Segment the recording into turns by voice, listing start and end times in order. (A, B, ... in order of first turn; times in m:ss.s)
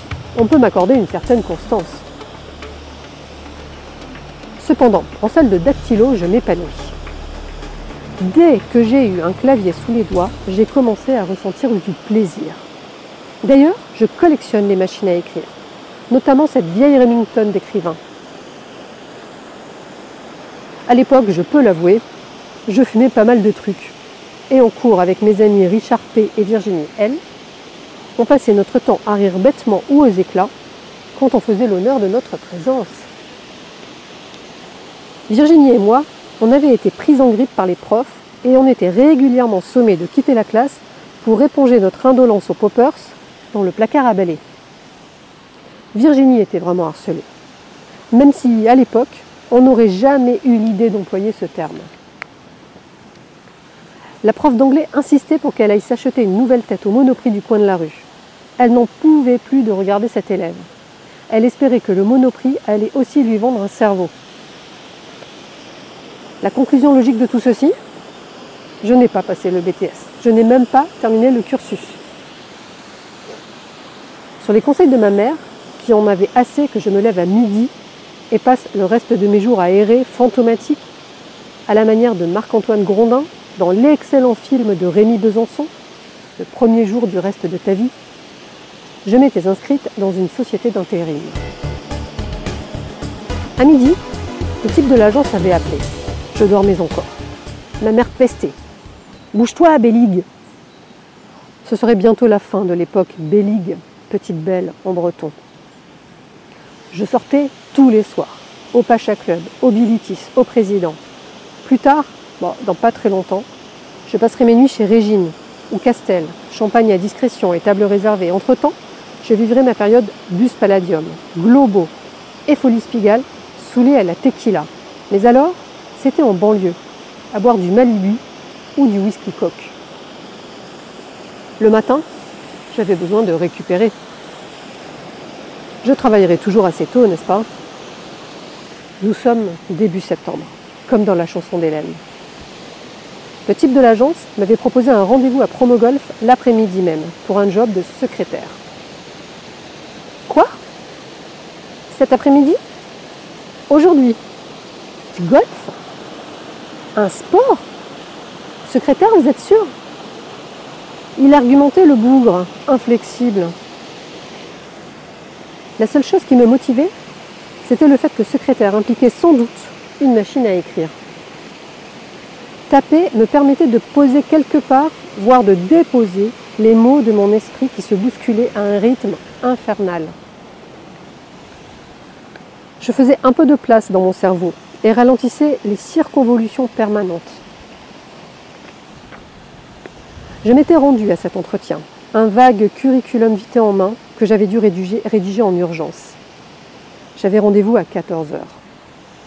0:00.3-0:02.0 A
0:04.6-0:07.0 A
0:08.2-0:12.7 A
0:13.4-0:15.6 A
0:16.1-0:18.0 A
0:20.9-0:22.0 A
0:22.6-0:24.0 A
0:24.5-0:27.2 A
0:28.2-0:30.5 A
0:31.1-0:33.1 A
0:35.3-0:44.4 A
0:45.9-0:47.3 A
0:48.1-0:51.9 A
0:54.2-1:00.7 A
1:01.3-1:04.1 A
1:06.4-1:07.7 A
1:08.8-1:12.0 A
1:14.4-1:17.7 A
1:18.3-1:20.8 A
1:21.7-1:25.7 A
1:26.4-1:27.9 A
1:29.0-1:31.4 A
1:33.6-1:34.0 A
1:34.6-1:37.2 A
1:37.8-1:38.6 A
1:39.3-1:40.2 A
1:41.6-1:45.3 A
1:46.9-1:51.0 A
1:51.6-1:53.5 A
1:54.0-2:01.9 A
2:02.5-2:06.8 A
2:07.3-2:08.2 A
2:08.8-2:09.8 A
2:11.6-2:12.0 A
2:12.7-2:13.9 A
2:15.8-2:17.5 A
2:19.0-2:22.0 A
2:23.4-2:28.6 A
2:30.3-2:30.6 A
2:31.9-2:32.6 A
2:33.7-2:34.2 A
2:35.1-2:35.8 A
2:36.9-2:37.7 A
2:38.6-2:39.7 A
2:41.2-2:43.5 A
2:45.8-2:46.9 A
2:47.6-2:50.9 A
2:52.7-3:00.1 A
3:02.8-3:07.4 A
3:10.4-3:16.2 A
3:17.2-3:18.6 A